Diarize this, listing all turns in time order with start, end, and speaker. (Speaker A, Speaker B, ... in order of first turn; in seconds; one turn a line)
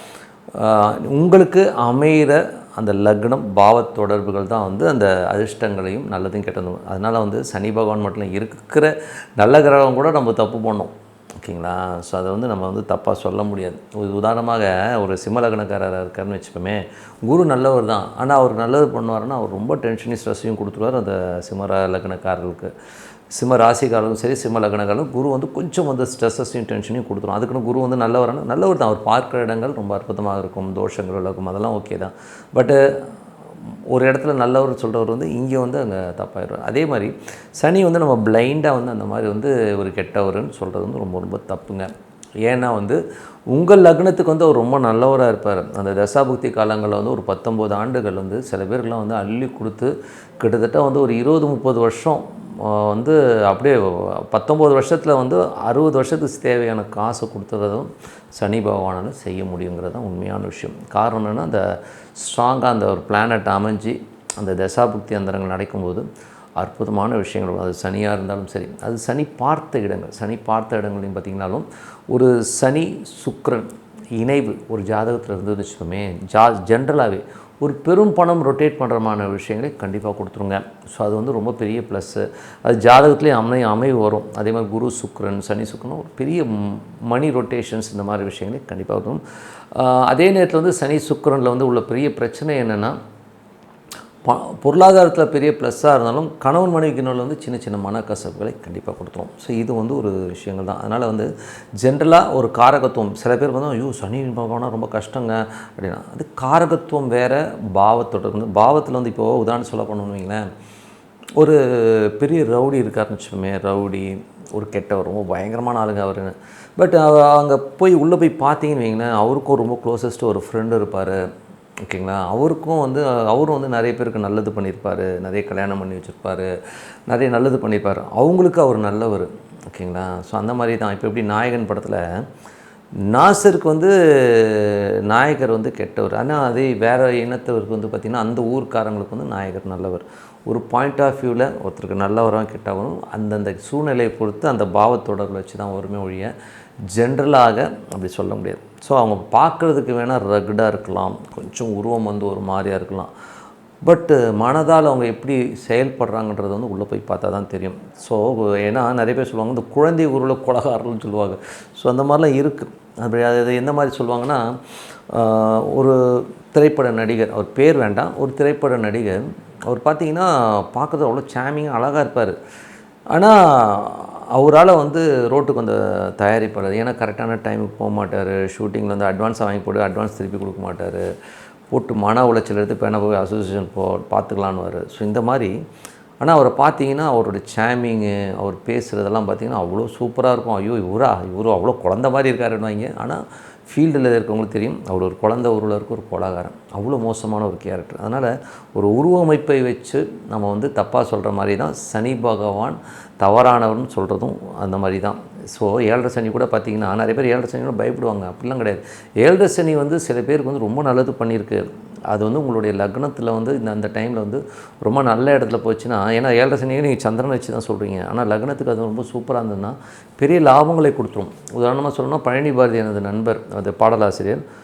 Speaker A: 0.6-22.7
Speaker A: 23.3-32.8
Speaker A: 33.9-41.9
Speaker A: 42.5-43.0
Speaker A: 43.5-61.6
Speaker A: 62.2-66.1
Speaker A: 66.6-89.2
Speaker A: 89.8-93.0
Speaker A: 94.2-101.3
Speaker A: 101.8-110.4
Speaker A: 111.4-121.2
Speaker A: 121.9-126.5
Speaker A: 127.1-132.0
Speaker A: 133.1-146.3
Speaker A: 146.9-153.1
Speaker A: 153.8-164.4
Speaker A: 165.1-172.3
Speaker A: 173.1-181.1
Speaker A: 181.7-185.5
Speaker A: 186.2-224.4